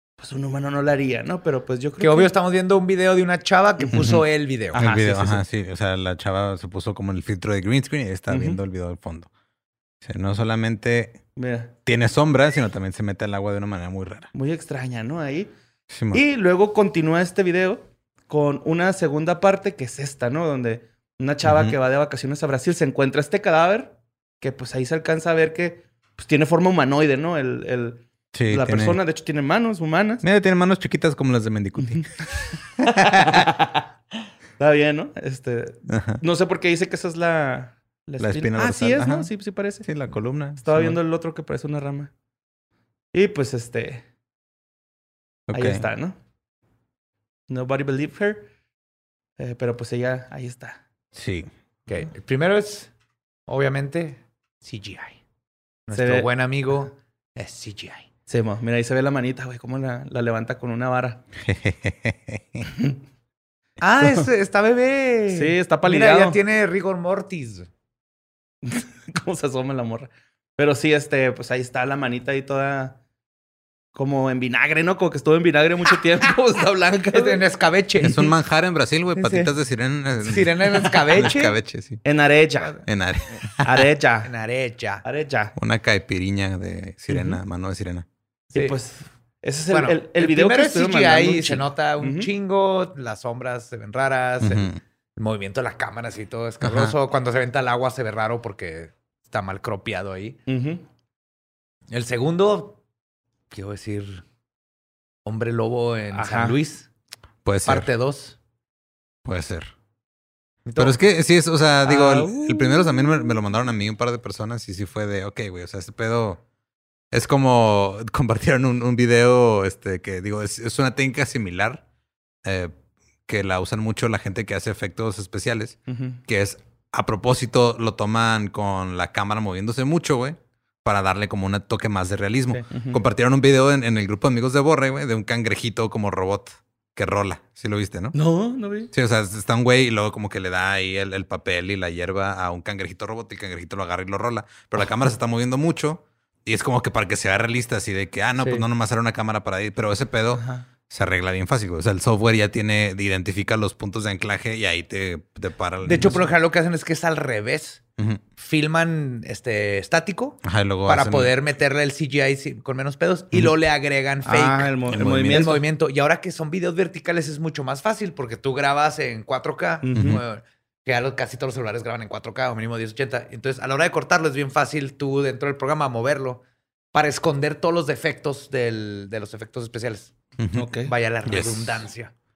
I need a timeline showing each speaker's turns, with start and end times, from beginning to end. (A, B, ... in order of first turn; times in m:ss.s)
0:00.2-0:02.3 A
0:02.0-0:04.8 B
0:03.8-0:04.2 A
0:04.7-0:05.4 A
0:04.7-0:09.3 C
0:08.3-0:08.6 A
0:10.0-0:11.2 C
0:11.4-0:11.7 A
0:11.8-0:14.3 C
0:14.3-0:15.5 A
0:15.9-0:16.2 C
0:16.1-0:30.2 A
0:21.4-0:21.7 C
0:28.3-0:29.0 C
0:30.2-0:32.2 C
0:32.8-0:33.5 C
0:32.9-0:33.8 A
0:34.6-0:39.9 A
0:35.9-0:36.2 C
0:38.2-0:39.3 C
0:39.8-0:41.0 C
0:40.5-0:42.1 A
0:43.1-0:44.0 A
0:45.5-0:45.8 C
0:45.5-0:46.2 A
0:47.5-0:48.5 A
0:49.4-0:50.8 A
0:51.2-0:51.5 C
0:51.9-0:52.9 B
0:53.5-0:55.2 B
0:55.9-0:58.0 B
0:55.9-0:56.3 A
0:58.3-1:01.2 A
1:01.4-1:02.7 C
1:03.8-1:07.7 B
1:05.3-1:06.4 A
1:08.6-1:13.0 A
1:13.9-1:17.4 A
1:17.1-1:18.2 B
1:18.0-1:22.0 C
1:19.2-1:19.5 B
1:20.2-1:21.6 B
1:22.0-1:22.8 A
1:22.8-1:23.9 C
1:23.6-1:24.3 A
1:24.2-1:25.0 B
1:25.0-1:25.5 A
1:25.6-1:28.0 C
1:28.5-1:32.3 A
1:29.7-1:40.4 B
1:34.4-1:34.8 C
1:36.6-1:36.9 C
1:40.5-1:40.8 A
1:41.9-1:42.8 B
1:43.5-1:44.2 B
1:45.2-1:46.9 B
1:46.1-1:46.6 A
1:47.4-1:47.9 C
1:47.6-1:48.4 B
1:49.2-1:49.7 C
1:50.6-1:51.0 B
1:50.8-1:56.4 C
1:51.8-1:53.2 A
1:57.1-2:01.8 C
2:02.4-2:02.7 C
2:03.3-2:18.1 C
2:05.9-2:06.2 A
2:12.5-2:13.0 A
2:18.1-2:18.9 A
2:18.9-2:36.3 C
2:30.4-2:30.6 A
2:35.8-2:37.8 B
2:38.4-2:56.4 B
2:40.4-2:41.3 C
2:44.2-2:45.6 A
2:44.9-2:45.5 C
2:49.8-2:50.2 A
2:50.0-2:50.2 C
2:56.9-3:00.1 B
3:00.4-3:00.7 C
3:00.5-3:00.9 A
3:00.9-3:02.1 B
3:01.2-3:01.8 C